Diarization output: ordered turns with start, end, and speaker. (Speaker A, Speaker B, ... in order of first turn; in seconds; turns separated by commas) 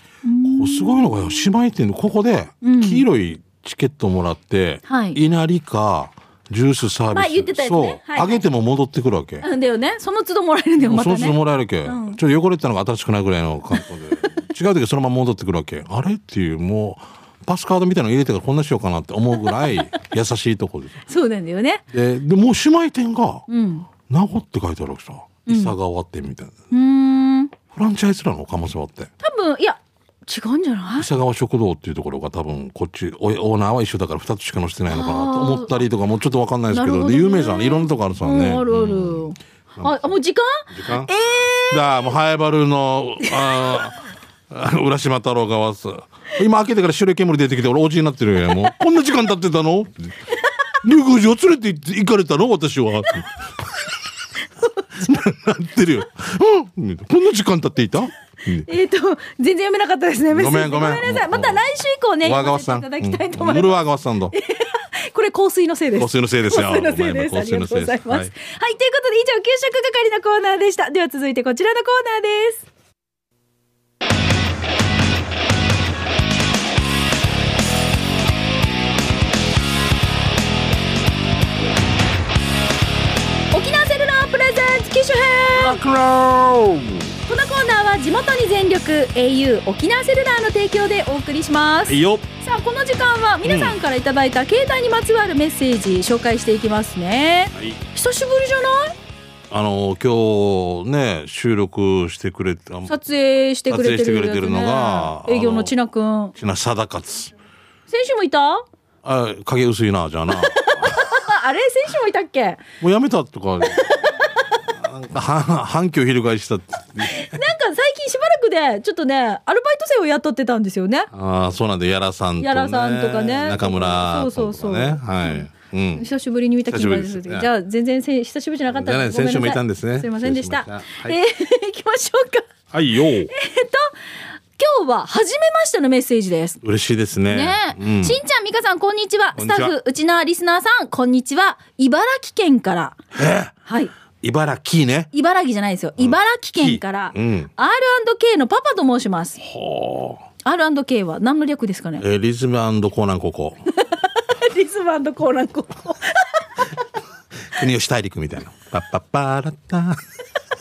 Speaker A: 0.2-1.5, Speaker B: 0.4-9.4, Speaker A: 2.6-3.0, Speaker A: 4.9-5.2, Speaker A: 7.1-8.4, Speaker A: 9.4-12.2, Speaker B: 10.8-21.0, Speaker A: 19.4-19.7, Speaker A: 21.1-21.8, Speaker B: 21.9-23.5, Speaker A: 23.5-23.9, Speaker B: 24.1-26.6, Speaker A: 25.5-25.7, Speaker A: 26.7-27.5, Speaker B: 27.7-29.1, Speaker A: 29.2-31.1, Speaker B: 31.0-39.9, Speaker A: 34.9-35.8, Speaker A: 36.7-42.1, Speaker B: 40.7-41.1, Speaker B: 41.7-50.1, Speaker A: 43.2-43.8, Speaker B: 50.8-53.9, Speaker B: 54.9-58.7, Speaker A: 58.6-72.7, Speaker B: 60.3-61.6, Speaker B: 62.2-64.3, Speaker B: 66.0-68.3, Speaker A: 83.5-85.8, Speaker B: 85.5-87.1, Speaker A: 87.2-98.9, Speaker B: 91.9-92.3, Speaker B: 93.4-93.8, Speaker B: 97.5-97.8, Speaker B: 99.5-102.9, Speaker A: 102.9-106.3, Speaker B: 103.7-105.7, Speaker B: 106.3-107.3, Speaker A: 107.9-108.6, Speaker B: 109.0-111.2, Speaker A: 110.3-112.6, Speaker B: 112.8-117.4, Speaker A: 113.6-114.6, Speaker A: 117.0-121.1, Speaker B: 121.1-126.0, Speaker A: 122.4-132.5, Speaker B: 126.7-127.5, Speaker B: 128.7-131.2, Speaker B: 132.7-133.3, Speaker A: 133.2-133.9, Speaker A: 134.6-136.6, Speaker B: 136.6-138.2, Speaker A: 137.3-143.0, Speaker B: 139.3-139.7, Speaker B: 143.1-143.5, Speaker A: 143.7-143.9, Speaker B: 144.2-145.1, Speaker A: 145.1-149.4, Speaker B: 146.0-147.5, Speaker B: 149.4-150.2, Speaker A: 150.4-152.0, Speaker B: 152.0-153.6, Speaker A: 153.8-156.4, Speaker B: 157.5-160.0